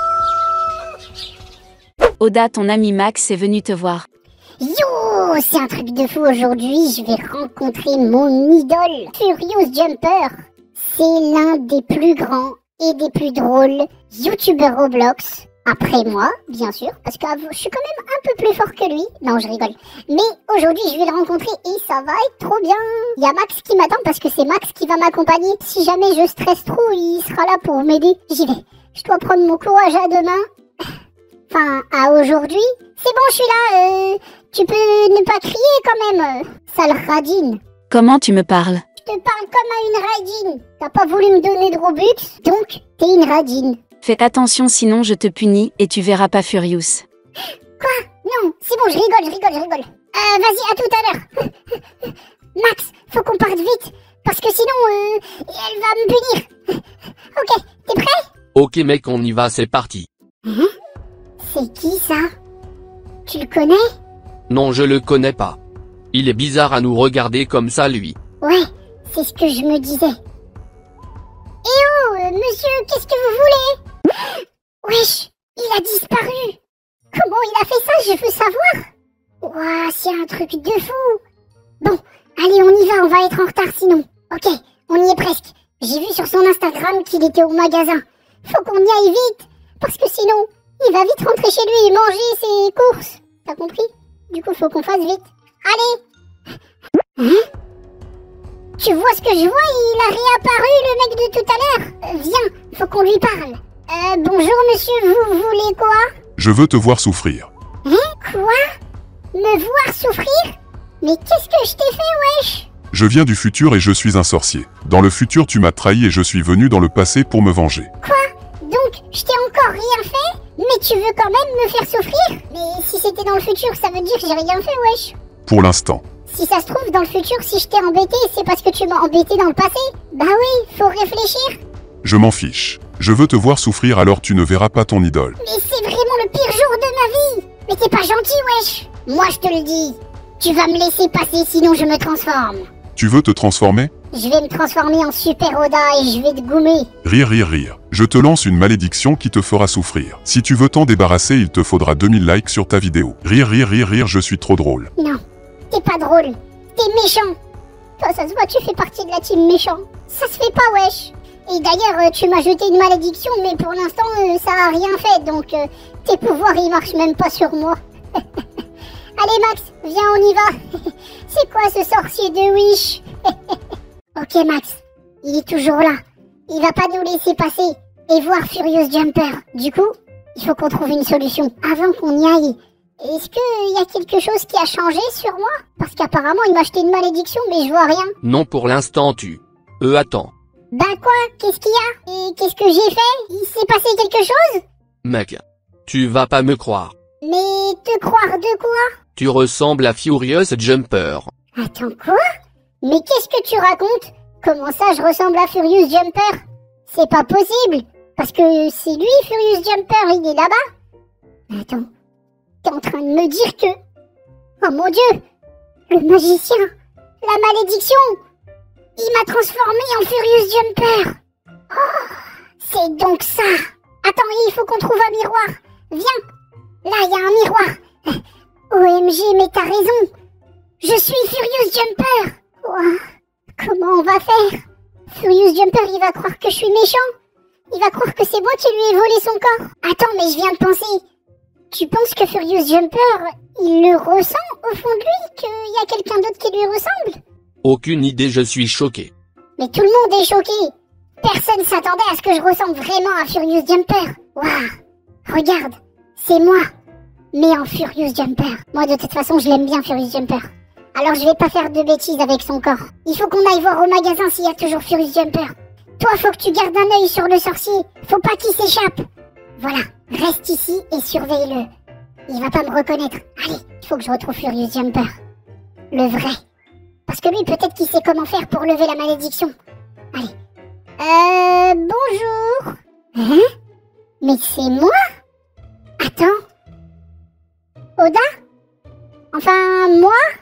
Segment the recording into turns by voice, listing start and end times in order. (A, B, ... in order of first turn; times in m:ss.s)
0:02.2-0:04.0 A
0:04.6-0:30.4 B
0:31.5-0:37.6 B
0:37.9-0:38.8 A
0:39.0-0:43.8 B
0:44.0-0:47.0 A
0:47.8-0:51.5 B
0:52.0-0:56.8 B
0:57.3-0:58.2 B
0:58.5-1:00.1 C
1:00.4-1:00.7 B
1:01.4-1:02.2 B
1:03.2-1:03.8 B
1:04.5-1:05.6 C
1:06.1-1:08.2 C
1:08.4-1:10.2 B
1:11.6-1:13.8 B
1:14.8-1:16.6 B
1:17.1-1:18.8 B
1:19.4-1:21.2 B
1:21.8-1:36.0 B
1:37.2-1:37.4 B
1:38.8-1:46.1 B
1:46.4-1:47.5 D
1:47.8-1:48.6 B
1:49.3-1:52.7 B
1:52.9-1:57.9 D
1:58.0-2:05.1 B
2:05.4-2:06.0 D
2:06.3-2:11.6 B
2:12.0-2:15.4 D
2:15.4-2:22.6 B
2:23.0-2:23.9 D
2:24.1-2:26.9 B
2:27.0-2:34.9 D
2:35.0-2:37.3 B
2:38.0-2:48.4 B
2:49.2-2:53.6 B
2:54.2-3:08.1 B
3:08.2-3:10.3 C
3:10.7-3:14.6 B
3:15.0-3:16.9 C
3:17.2-3:18.9 B
3:19.2-3:21.3 C
3:21.6-3:22.2 B
3:22.8-3:30.6 B
3:31.5-3:31.9 B
3:32.6-3:33.8 B
3:34.6-3:35.2 B
3:35.9-3:36.6 B
3:37.2-3:38.2 B
3:39.0-3:41.1 B
3:41.7-3:46.2 B
3:46.8-3:50.1 B
3:50.8-3:53.0 B
3:53.6-3:57.0 B
3:57.7-4:01.0 B
4:01.7-4:07.2 B
4:07.6-4:09.1 C
4:09.6-4:10.7 B
4:11.2-4:14.7 B
4:15.3-4:16.7 B
4:17.3-4:29.0 B
4:29.6-4:31.7 B
4:32.3-4:35.1 B
4:35.9-4:36.4 B
4:37.1-4:39.5 B
4:41.0-4:43.5 B
4:44.2-4:45.0 B
4:46.0-4:46.4 B
4:48.0-4:48.2 B
4:49.3-4:50.2 B